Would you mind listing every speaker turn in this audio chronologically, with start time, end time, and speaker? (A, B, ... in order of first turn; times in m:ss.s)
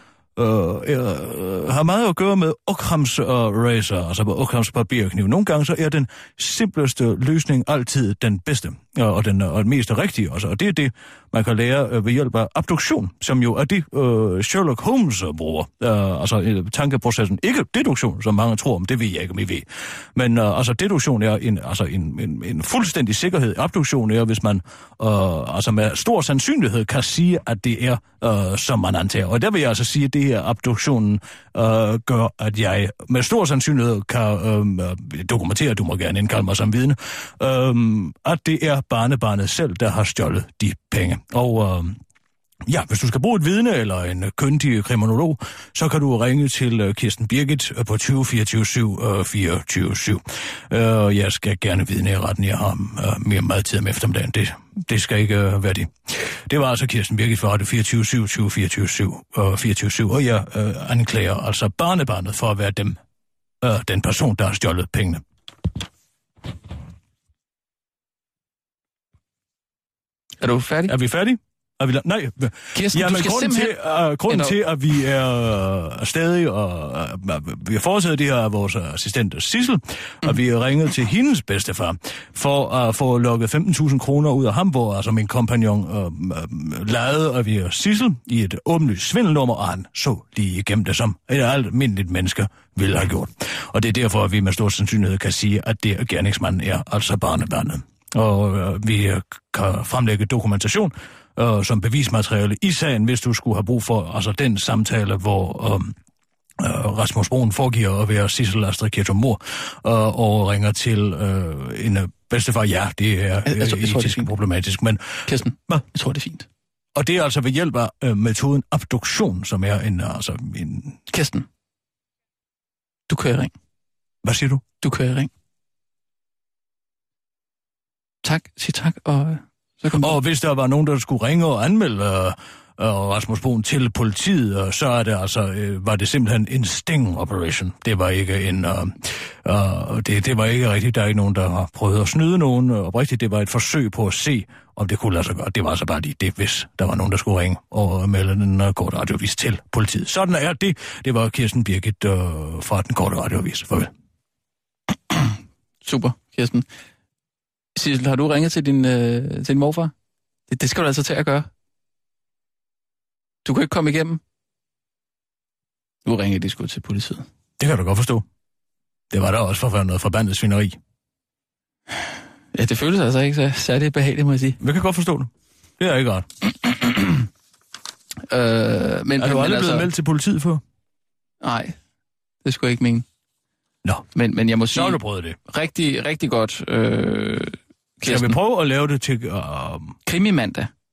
0:00.4-0:42.0 A
0:42.6-1:03.0 A
1:03.6-1:05.2 A
1:10.4-1:10.9 B
1:10.9-1:45.9 A
1:12.7-1:13.7 B
1:14.3-1:14.5 B
1:46.6-1:55.8 A
1:53.4-1:54.3 B
1:55.3-1:56.5 B
1:56.9-2:01.0 A
2:01.1-2:01.5 B
2:03.1-2:03.5 B
2:04.2-2:04.6 A
2:04.8-2:05.3 B
2:08.2-2:10.2 B
2:09.9-2:33.9 A
2:35.1-2:36.6 B
2:37.8-2:39.9 B
2:40.5-2:41.5 B
2:43.4-2:44.2 B
2:46.0-2:47.2 B
2:47.6-2:48.2 A
2:49.1-2:50.8 A
2:52.5-2:54.6 B
2:54.6-2:56.3 A
2:58.3-2:59.9 B
2:59.2-3:00.6 A
3:01.4-3:01.7 B
3:02.4-3:03.0 B
3:04.1-3:08.4 B
3:04.7-3:05.4 A
3:08.0-3:10.0 A
3:10.0-3:10.7 B